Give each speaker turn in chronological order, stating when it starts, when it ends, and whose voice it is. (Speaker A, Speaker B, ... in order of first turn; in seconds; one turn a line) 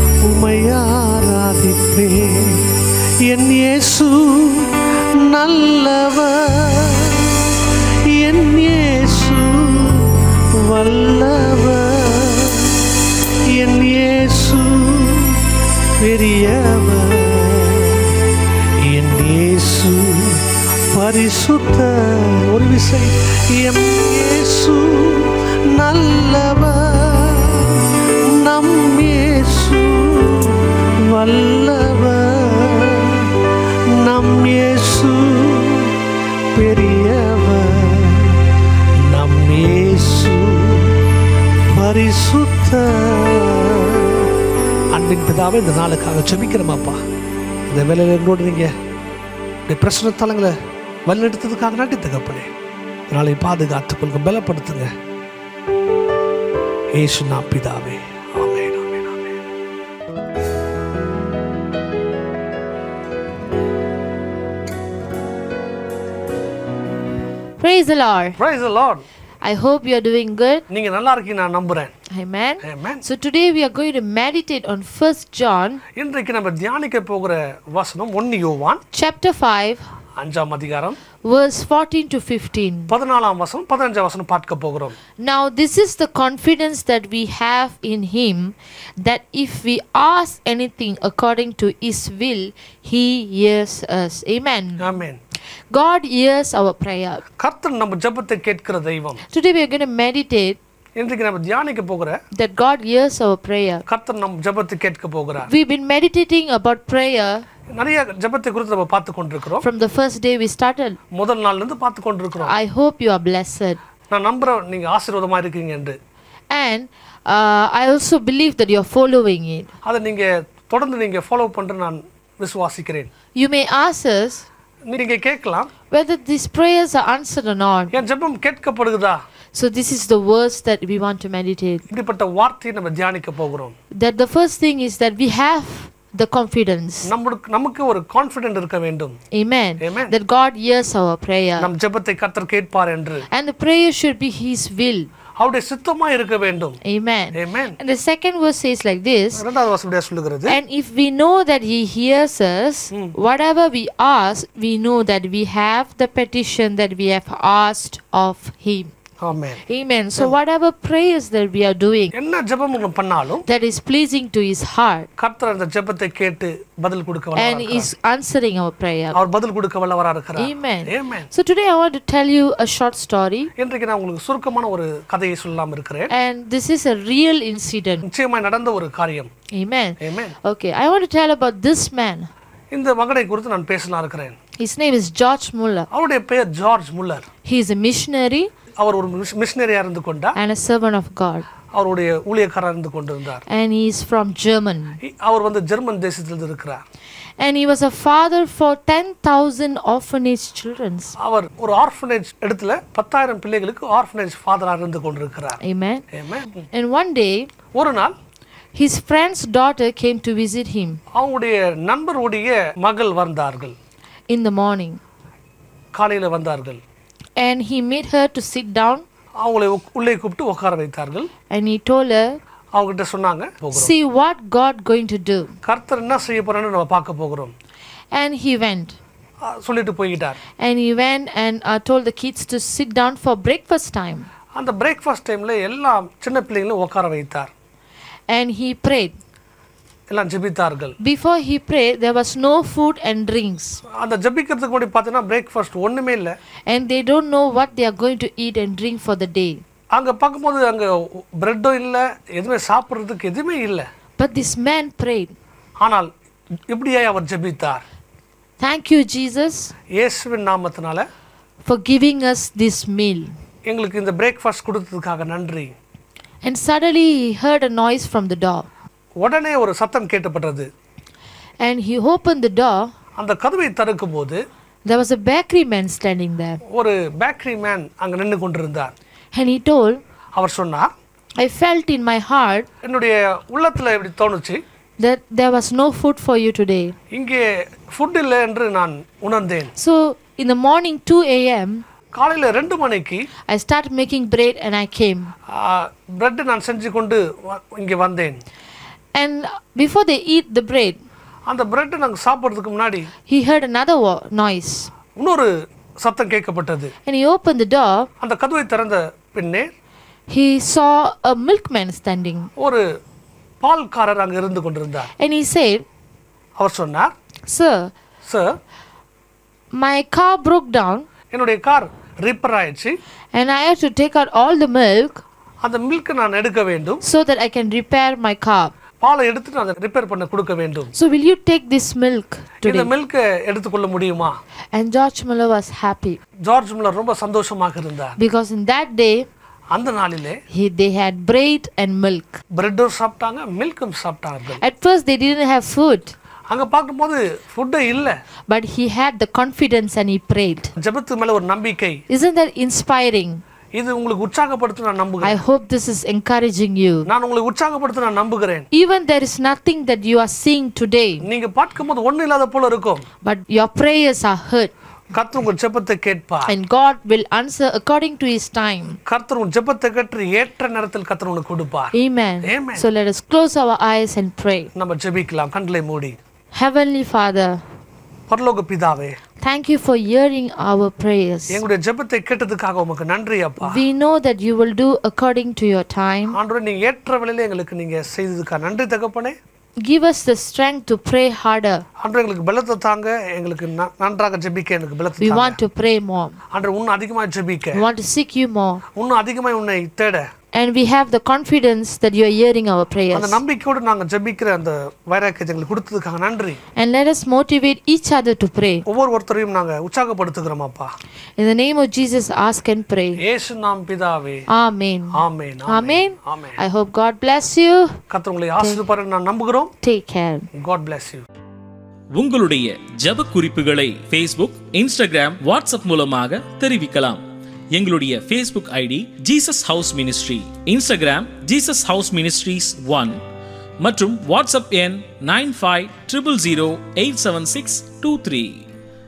Speaker A: 0.2-12.9
Speaker A: 13.5-15.4
Speaker A: 16.0-18.1
Speaker A: 18.8-33.3
Speaker A: 33.9-36.0
Speaker A: 36.5-38.4
Speaker A: 39.0-41.0
Speaker A: 41.7-44.3
Speaker A: 44.9-47.0
Speaker A: 47.7-48.7
Speaker A: 49.7-50.5
Speaker A: 51.1-52.5
Speaker A: 53.1-54.9
Speaker A: 57.0-59.4
Speaker B: 67.6-68.4
Speaker A: 68.4-69.0
Speaker B: 69.4-70.6
Speaker A: 70.7-71.9
Speaker B: 72.1-75.8
Speaker A: 72.6-73.0
Speaker A: 76.0-78.8
Speaker B: 78.9-79.8
Speaker A: 80.2-81.0
Speaker B: 81.2-82.9
Speaker A: 82.9-84.9
Speaker B: 85.2-94.8
Speaker A: 94.8-95.2
Speaker B: 95.7-97.2
Speaker A: 97.4-99.2
Speaker B: 99.3-100.6
Speaker A: 101.0-102.2
Speaker B: 102.3-103.8
Speaker A: 103.9-105.5
Speaker B: 105.5-107.4
Speaker A: 107.7-109.7
Speaker B: 109.6-111.0
Speaker A: 111.1-112.5
Speaker B: 112.4-113.8
Speaker A: 114.1-116.0
Speaker B: 116.5-119.7
Speaker A: 119.8-123.1
Speaker B: 123.3-124.5
Speaker A: 124.9-125.7
Speaker B: 125.9-127.9
Speaker A: 127.9-129.2
Speaker B: 129.5-131.8
Speaker A: 131.9-133.7
Speaker B: 133.9-137.1
Speaker A: 137.1-139.2
Speaker B: 139.3-141.7
Speaker A: 139.8-140.1
Speaker A: 141.6-143.2
Speaker B: 143.3-145.1
Speaker A: 145.4-146.8
Speaker B: 146.8-149.4
Speaker A: 147.3-147.8
Speaker A: 149.3-150.6
Speaker B: 150.5-158.9
Speaker A: 159.2-159.6
Speaker B: 159.7-162.1
Speaker A: 162.1-163.4
Speaker B: 163.4-165.1
Speaker A: 165.2-167.9
Speaker B: 167.3-169.2
Speaker A: 169.1-171.3
Speaker B: 170.4-173.5
Speaker A: 173.6-176.1
Speaker B: 176.1-178.0
Speaker A: 178.0-179.3
Speaker B: 179.5-182.3
Speaker A: 180.0-180.3
Speaker A: 182.7-184.4
Speaker B: 184.6-185.9
Speaker A: 185.9-187.3
Speaker B: 187.4-188.5
Speaker A: 188.8-190.4
Speaker B: 190.3-191.5
Speaker A: 191.7-193.4
Speaker B: 193.5-195.0
Speaker A: 195.0-196.8
Speaker B: 197.4-201.1
Speaker A: 201.2-205.6
Speaker B: 205.6-206.0
Speaker A: 206.1-206.5
Speaker B: 206.7-207.5
Speaker A: 207.7-208.1
Speaker B: 208.7-211.0
Speaker A: 211.1-213.7
Speaker B: 214.3-215.0
Speaker A: 215.9-216.8
Speaker B: 217.4-219.0
Speaker A: 219.4-221.3
Speaker B: 221.5-222.4
Speaker A: 222.7-223.9
Speaker B: 223.7-225.5
Speaker A: 225.6-227.5
Speaker B: 228.1-229.0
Speaker A: 229.4-230.4
Speaker B: 230.6-234.3
Speaker A: 234.5-237.5
Speaker B: 238.3-239.1
Speaker A: 240.1-240.9
Speaker B: 241.0-243.8
Speaker A: 243.9-246.3
Speaker B: 246.7-249.6
Speaker A: 249.9-253.8
Speaker B: 254.2-255.3
Speaker A: 255.8-256.1
Speaker A: 256.7-257.8
Speaker B: 258.6-259.7
Speaker A: 259.9-261.0
Speaker B: 261.6-263.3
Speaker A: 263.7-265.7
Speaker B: 266.4-268.7
Speaker A: 269.2-270.7
Speaker B: 271.6-272.9
Speaker A: 273.2-274.4
Speaker B: 274.8-276.6
Speaker A: 276.7-278.9
Speaker B: 279.3-280.0
Speaker A: 280.4-280.9
Speaker B: 281.4-282.7
Speaker A: 282.8-284.6
Speaker B: 285.0-286.9
Speaker A: 287.1-289.7
Speaker B: 289.8-291.8
Speaker A: 292.1-293.3
Speaker B: 293.5-295.3
Speaker A: 295.5-298.4
Speaker B: 299.1-301.0
Speaker A: 301.5-303.1
Speaker B: 303.3-304.9
Speaker A: 305.2-306.9
Speaker B: 307.0-308.1
Speaker A: 308.2-309.7
Speaker B: 310.3-312.5
Speaker A: 312.6-312.8
Speaker A: 313.6-315.1
Speaker B: 315.1-315.8
Speaker A: 316.6-317.1
Speaker B: 317.5-317.9
Speaker A: 318.2-318.6
Speaker B: 319.8-321.1
Speaker A: 321.3-323.0
Speaker B: 323.3-325.2
Speaker A: 325.6-327.0
Speaker B: 327.0-328.7
Speaker A: 329.0-330.9
Speaker B: 330.9-332.9
Speaker A: 332.6-334.3
Speaker B: 334.7-336.2
Speaker A: 336.4-338.1
Speaker B: 338.2-339.3
Speaker A: 339.7-340.4
Speaker B: 340.5-342.4
Speaker A: 342.5-344.6
Speaker B: 344.6-346.1
Speaker A: 346.5-348.1
Speaker B: 348.5-350.7
Speaker A: 350.8-352.0
Speaker B: 352.1-353.4
Speaker A: 353.7-355.4
Speaker B: 355.2-357.1
Speaker A: 357.1-358.7
Speaker B: 358.7-361.2
Speaker A: 361.2-363.0
Speaker B: 363.2-364.7
Speaker A: 365.1-366.5
Speaker B: 366.5-369.0
Speaker A: 369.1-372.8
Speaker B: 371.9-374.7
Speaker A: 374.7-376.2
Speaker B: 376.5-377.6
Speaker A: 378.3-379.2
Speaker B: 379.4-381.6
Speaker A: 381.5-383.8
Speaker B: 383.6-386.4
Speaker A: 386.3-389.3
Speaker B: 389.8-391.8
Speaker A: 392.0-395.6
Speaker B: 395.2-396.4
Speaker A: 396.5-397.8
Speaker B: 397.7-398.8
Speaker A: 399.0-400.3
Speaker B: 400.5-403.4
Speaker A: 403.1-406.6
Speaker B: 406.8-408.8
Speaker A: 408.9-410.9
Speaker B: 411.4-413.2
Speaker A: 413.2-414.4
Speaker B: 414.5-417.9
Speaker A: 415.1-416.6
Speaker A: 418.1-419.7
Speaker B: 419.8-420.5
Speaker A: 420.5-421.2
Speaker C: 422.1-433.2
Speaker C: 433.8-438.7